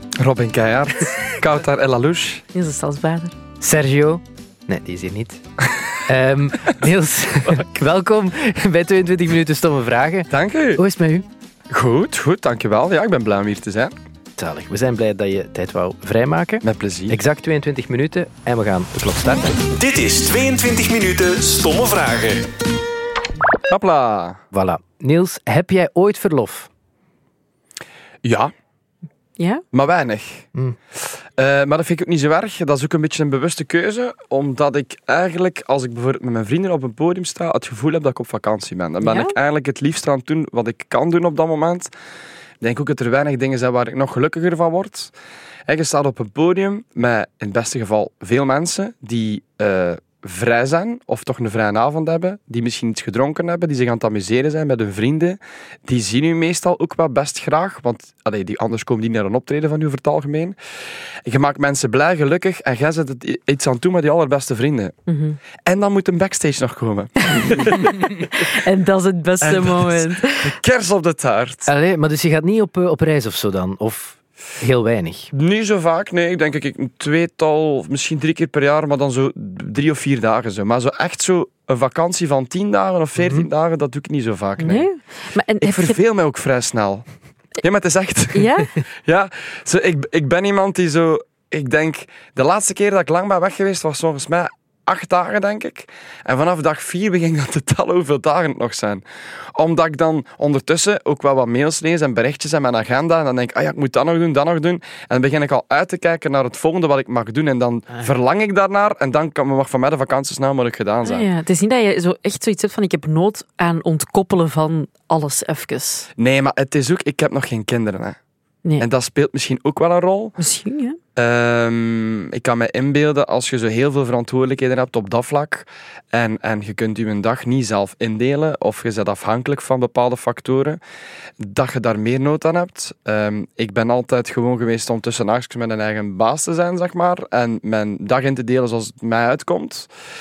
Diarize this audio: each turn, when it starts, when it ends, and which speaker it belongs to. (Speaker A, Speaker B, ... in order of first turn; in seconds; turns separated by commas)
Speaker A: 0.2-2.4, Speaker B: 2.5-3.3, Speaker C: 3.6-5.4, Speaker C: 6.1-11.2, Speaker A: 10.3-10.8, Speaker A: 11.7-13.9, Speaker C: 14.4-19.6, Speaker A: 16.6-17.2, Speaker D: 19.7-22.5, Speaker A: 23.7-24.4, Speaker C: 24.5-26.7, Speaker A: 28.2-28.5, Speaker B: 29.4-29.6, Speaker A: 29.7-30.5, Speaker A: 31.1-41.9, Speaker B: 39.0-39.3, Speaker A: 42.6-45.1, Speaker A: 45.7-60.6, Speaker A: 61.2-65.0, Speaker B: 65.1-65.4, Speaker A: 65.7-68.5, Speaker B: 67.4-70.5, Speaker A: 69.4-71.7, Speaker C: 71.7-75.3, Speaker A: 75.3-84.9, Speaker C: 83.2-83.5, Speaker B: 84.6-86.0, Speaker A: 85.6-87.1, Speaker A: 87.6-111.3, Speaker B: 88.3-88.8, Speaker B: 111.0-116.1, Speaker A: 116.2-118.2, Speaker A: 118.8-120.4, Speaker B: 120.4-121.0, Speaker A: 121.2-130.8, Speaker A: 131.4-139.9